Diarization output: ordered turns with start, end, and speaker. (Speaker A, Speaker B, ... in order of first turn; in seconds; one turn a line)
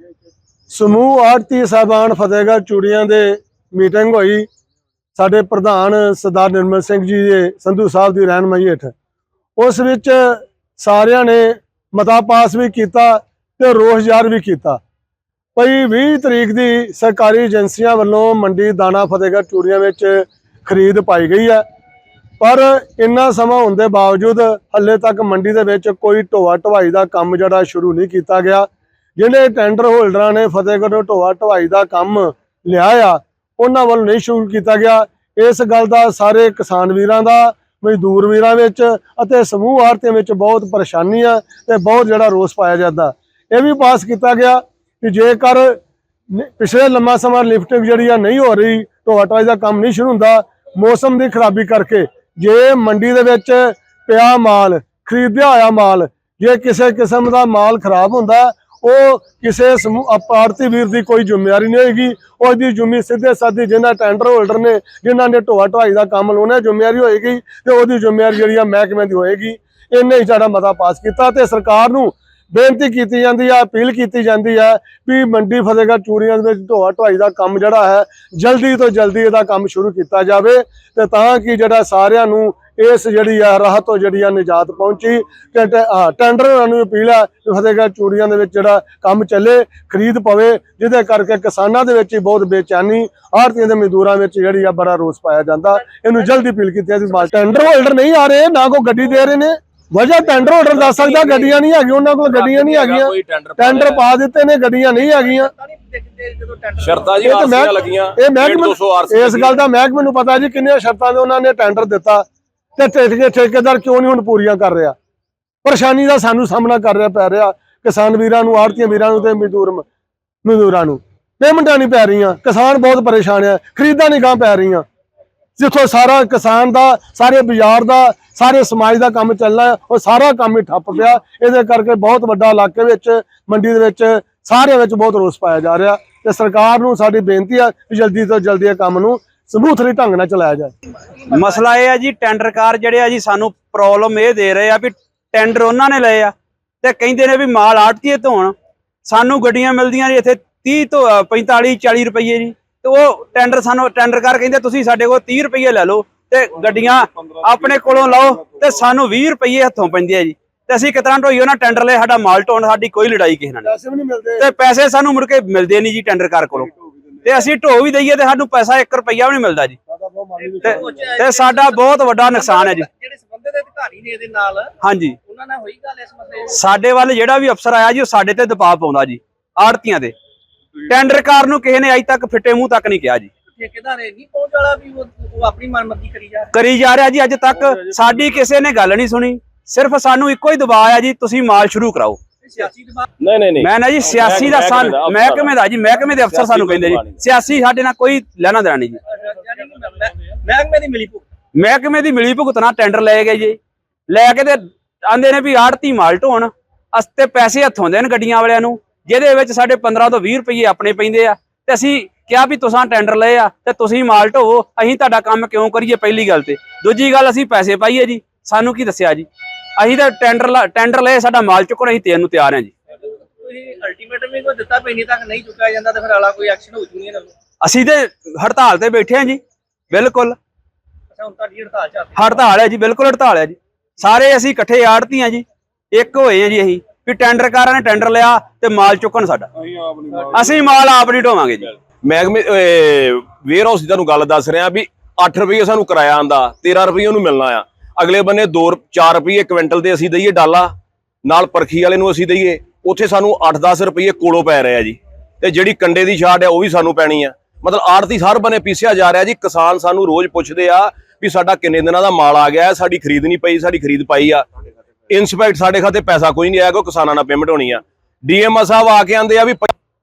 Speaker A: 0.7-4.5
Speaker A: 5.2-8.9
Speaker A: 9.6-14.8
Speaker A: 15.6-21.6
Speaker A: 22.4-45.8
Speaker A: 46.3-105.5
Speaker B: 101.1-101.4
Speaker C: 102.3-104.0
Speaker B: 105.2-107.2
Speaker C: 106.8-109.6
Speaker A: 107.2-112.2
Speaker A: 112.8-115.0
Speaker A: 115.6-119.8
Speaker A: 120.4-124.8
Speaker A: 125.6-140.7
Speaker D: 141.3-148.5
Speaker D: 149.1-163.7
Speaker A: 163.6-164.5
Speaker D: 164.4-166.7
Speaker D: 167.2-169.8
Speaker A: 169.9-171.1
Speaker B: 170.4-174.7
Speaker D: 170.6-172.9
Speaker D: 174.8-175.2
Speaker B: 175.3-176.5
Speaker D: 176.5-180.1
Speaker D: 180.8-183.3
Speaker B: 183.6-186.5
Speaker D: 186.5-192.2
Speaker B: 192.4-193.1
Speaker C: 193.2-195.5
Speaker D: 193.6-199.0
Speaker C: 196.3-197.2
Speaker B: 199.1-201.2
Speaker D: 201.6-222.7
Speaker B: 223.4-227.3
Speaker D: 227.6-229.4
Speaker D: 229.9-230.4
Speaker B: 231.1-232.2
Speaker D: 232.2-239.5
Speaker D: 240.3-241.7
Speaker C: 242.0-250.7
Speaker C: 251.2-264.4
Speaker C: 265.1-269.7